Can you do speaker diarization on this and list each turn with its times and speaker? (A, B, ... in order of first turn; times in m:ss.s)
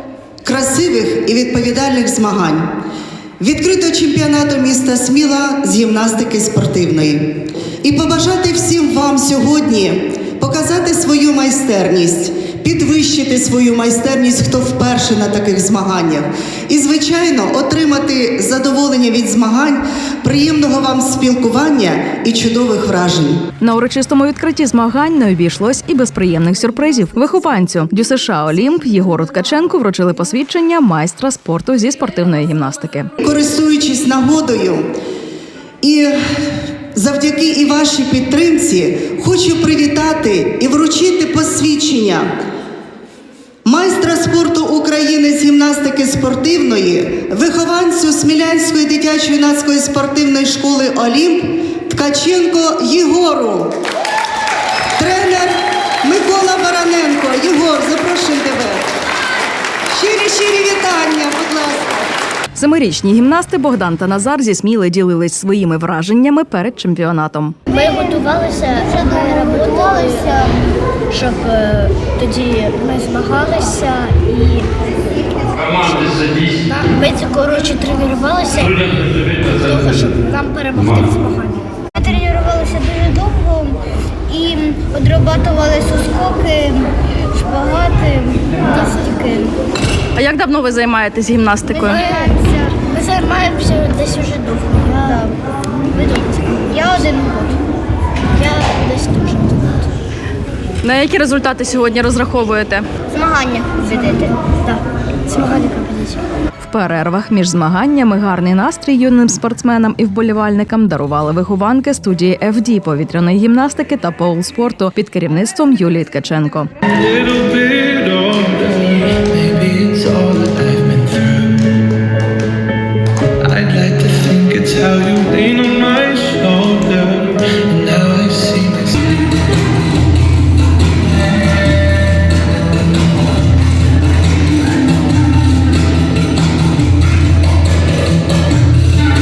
0:00.4-0:02.7 A
0:03.4-0:23.4 A
0:23.6-0:33.1 B
0:33.2-0:34.9 A
0:35.8-0:36.2 A
0:36.9-0:42.3 A
0:43.6-0:53.8 A
0:55.0-0:58.8 A
0:59.9-1:01.9 A
1:02.5-1:07.6 B
1:07.7-1:14.7 C
1:15.4-1:29.6 C
1:30.2-1:32.0 B
1:30.5-1:31.2 D
1:31.7-1:37.6 C
1:38.3-1:39.9 C
1:40.8-1:42.8 B
1:43.1-1:46.2 C
1:46.6-1:56.7 B
1:56.9-2:01.7 D
2:03.4-2:09.0 D